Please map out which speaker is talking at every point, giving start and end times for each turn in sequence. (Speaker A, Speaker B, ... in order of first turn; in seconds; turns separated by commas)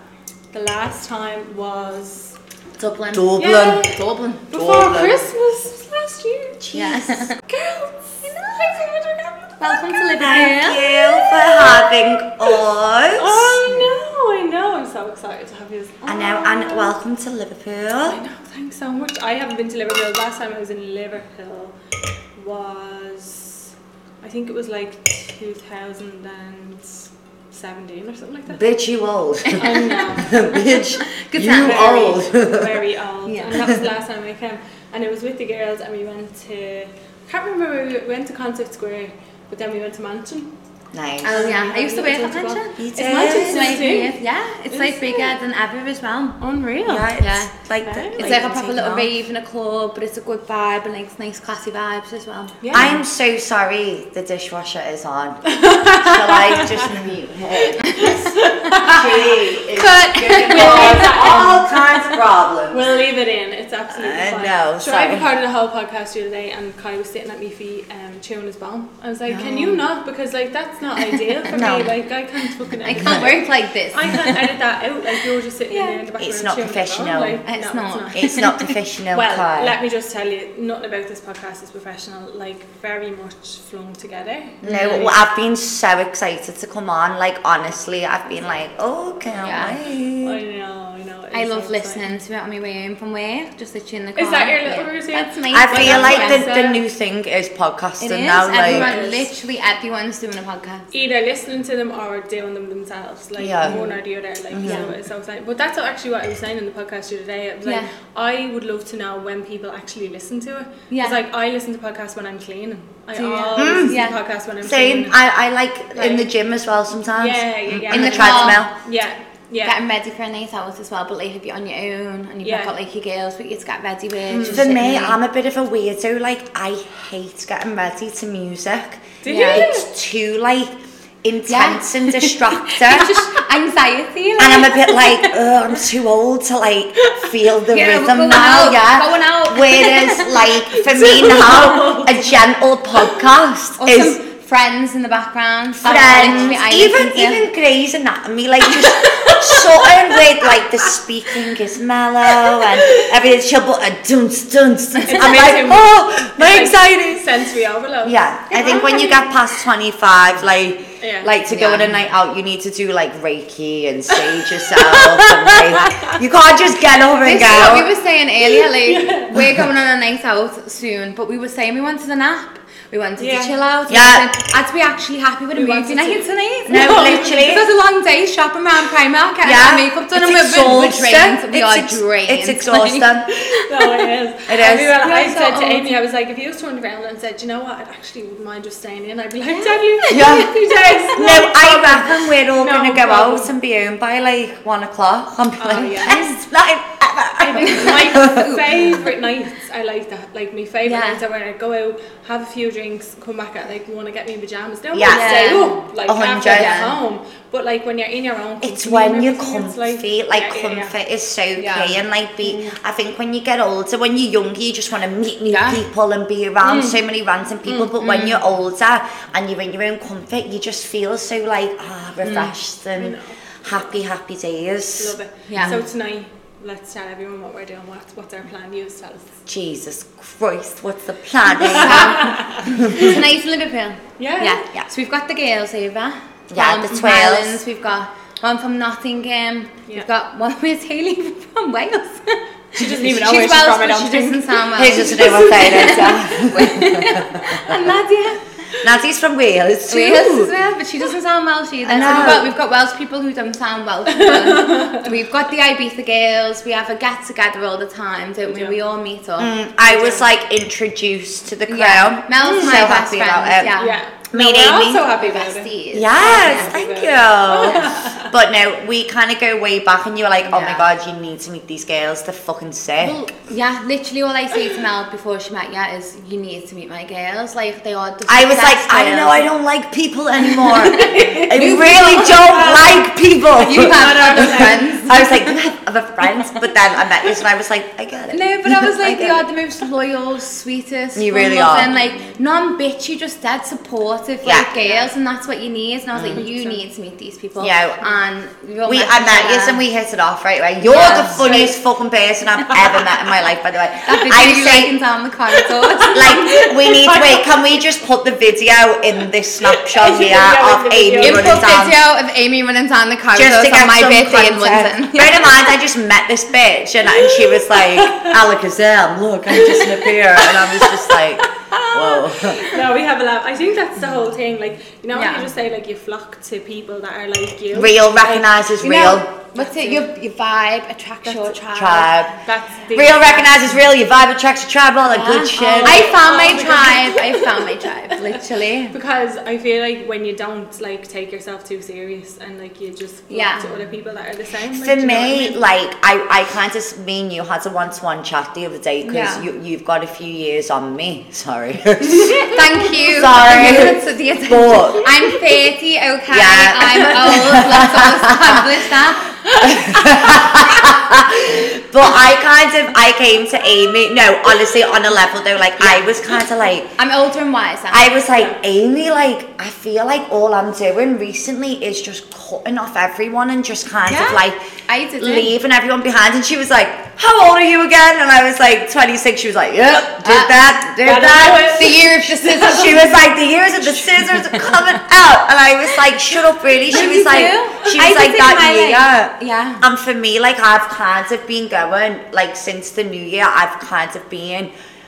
Speaker A: 0.5-2.3, Speaker B: 2.8-3.4, Speaker C: 3.1-3.9, Speaker A: 3.4-6.6, Speaker B: 3.9-4.4, Speaker C: 4.5-5.3, Speaker C: 6.6-7.0, Speaker B: 6.7-7.4, Speaker A: 7.5-9.9, Speaker B: 9.6-10.8, Speaker C: 10.2-13.4, Speaker A: 10.8-12.6, Speaker A: 13.2-17.0, Speaker B: 13.7-13.9, Speaker C: 16.1-18.2, Speaker A: 18.0-21.8, Speaker A: 22.4-28.6, Speaker C: 28.5-32.8, Speaker A: 29.6-30.8, Speaker B: 31.2-31.9, Speaker A: 31.4-40.5, Speaker B: 33.2-33.6, Speaker C: 40.9-41.5, Speaker B: 41.2-46.4, Speaker A: 41.2-44.1, Speaker C: 42.8-43.8, Speaker A: 44.7-45.3, Speaker A: 46.4-47.1, Speaker C: 46.9-49.1, Speaker B: 47.2-47.5, Speaker A: 47.8-48.4, Speaker B: 48.1-52.8, Speaker A: 52.6-53.0, Speaker C: 52.7-62.8, Speaker A: 55.5-56.9, Speaker A: 58.0-59.3, Speaker B: 59.7-61.4, Speaker A: 60.4-78.3, Speaker C: 63.9-65.3, Speaker C: 69.3-69.8, Speaker C: 71.5-72.0, Speaker B: 72.8-74.4, Speaker C: 73.0-73.3, Speaker B: 75.7-76.0, Speaker C: 76.2-77.4, Speaker B: 77.5-78.7, Speaker C: 78.1-79.8, Speaker A: 79.1-85.2, Speaker C: 84.6-90.4, Speaker B: 89.4-89.8, Speaker A: 90.2-92.1, Speaker B: 91.3-96.5, Speaker A: 94.2-96.8, Speaker C: 95.5-98.9, Speaker B: 98.0-100.8, Speaker A: 98.6-99.3, Speaker A: 100.9-115.2, Speaker C: 103.4-103.9, Speaker C: 104.5-104.9, Speaker B: 104.6-104.9, Speaker B: 110.9-111.2, Speaker B: 113.1-114.1, Speaker C: 113.5-114.0, Speaker C: 114.6-118.7, Speaker A: 115.9-116.3, Speaker A: 117.2-119.8, Speaker B: 117.9-118.7, Speaker B: 119.6-125.2, Speaker A: 122.4-122.7, Speaker A: 124.3-124.7, Speaker C: 124.5-130.7, Speaker A: 129.2-129.9, Speaker B: 129.2-129.7, Speaker C: 131.2-133.2, Speaker B: 131.5-134.8, Speaker C: 134.4-144.2, Speaker A: 134.9-135.3, Speaker B: 137.7-140.5, Speaker A: 140.7-142.3, Speaker B: 143.8-147.5, Speaker C: 145.8-157.2, Speaker A: 145.8-146.6, Speaker A: 148.7-150.9, Speaker A: 152.3-153.1, Speaker A: 155.0-159.1, Speaker C: 158.0-167.9, Speaker B: 158.5-159.2, Speaker A: 161.0-161.3, Speaker B: 161.5-161.9, Speaker A: 164.7-166.2, Speaker B: 167.2-184.1, Speaker A: 167.5-167.8, Speaker A: 168.4-169.4, Speaker A: 173.2-173.5, Speaker C: 173.9-174.3, Speaker A: 175.5-176.2, Speaker C: 176.7-177.7, Speaker C: 179.4-183.3, Speaker A: 183.6-193.5, Speaker C: 184.5-185.0, Speaker B: 185.0-185.9, Speaker B: 189.5-190.9, Speaker C: 190.1-198.5, Speaker A: 195.6-196.4, Speaker B: 195.8-196.1, Speaker A: 197.4-210.9, Speaker B: 197.6-199.1, Speaker B: 200.8-201.2, Speaker C: 204.9-206.8, Speaker B: 205.1-205.8, Speaker B: 206.5-206.9, Speaker C: 208.6-225.1, Speaker B: 211.6-212.7, Speaker B: 215.5-215.8, Speaker A: 216.6-217.0, Speaker A: 217.8-218.3, Speaker B: 222.2-222.5, Speaker A: 222.9-223.3, Speaker A: 225.0-229.3, Speaker B: 225.5-225.8, Speaker C: 229.5-233.2, Speaker A: 231.6-233.1, Speaker B: 231.7-248.4, Speaker A: 234.2-234.6, Speaker C: 236.5-237.6, Speaker A: 242.8-246.1, Speaker C: 244.7-247.4, Speaker C: 248.8-250.5, Speaker B: 249.9-259.5, Speaker C: 251.8-252.5, Speaker A: 252.0-252.5, Speaker A: 254.1-255.1, Speaker A: 258.5-258.8, Speaker C: 259.4-263.7, Speaker A: 259.9-260.2, Speaker B: 261.7-264.0, Speaker A: 262.4-262.8, Speaker A: 263.8-268.3, Speaker C: 264.3-265.1, Speaker B: 265.2-266.7, Speaker C: 265.9-273.2, Speaker B: 270.5-270.9, Speaker B: 273.0-279.5, Speaker C: 278.3-289.4, Speaker A: 280.5-285.0, Speaker B: 281.6-282.4, Speaker B: 283.6-285.2, Speaker B: 288.3-299.8, Speaker C: 291.1-291.9, Speaker C: 294.4-294.7, Speaker C: 296.1-296.4, Speaker A: 296.3-296.8, Speaker C: 297.6-298.0, Speaker C: 298.9-304.9, Speaker B: 300.8-301.7, Speaker A: 301.1-301.7, Speaker B: 304.0-306.6, Speaker A: 305.6-307.6, Speaker C: 306.1-312.0, Speaker A: 309.6-311.7, Speaker B: 311.2-315.5, Speaker C: 313.3-322.7, Speaker A: 317.2-318.4, Speaker A: 319.5-328.6, Speaker B: 325.1-325.4, Speaker C: 327.7-329.3, Speaker B: 328.8-332.1, Speaker A: 329.5-330.1, Speaker A: 331.2-331.8, Speaker C: 331.7-332.3, Speaker A: 332.4-333.7, Speaker C: 332.9-336.1, Speaker B: 335.1-338.9, Speaker A: 335.6-337.6, Speaker A: 338.9-345.6, Speaker B: 343.3-343.7, Speaker C: 344.8-355.1, Speaker B: 349.0-349.4, Speaker B: 352.1-359.3, Speaker C: 356.3-358.8, Speaker C: 359.5-366.9, Speaker B: 366.9-368.1, Speaker C: 367.9-374.6, Speaker B: 374.1-375.5, Speaker C: 375.2-394.7, Speaker B: 380.2-380.7, Speaker A: 381.0-383.1, Speaker B: 381.6-383.1, Speaker B: 384.2-384.7, Speaker B: 386.9-389.8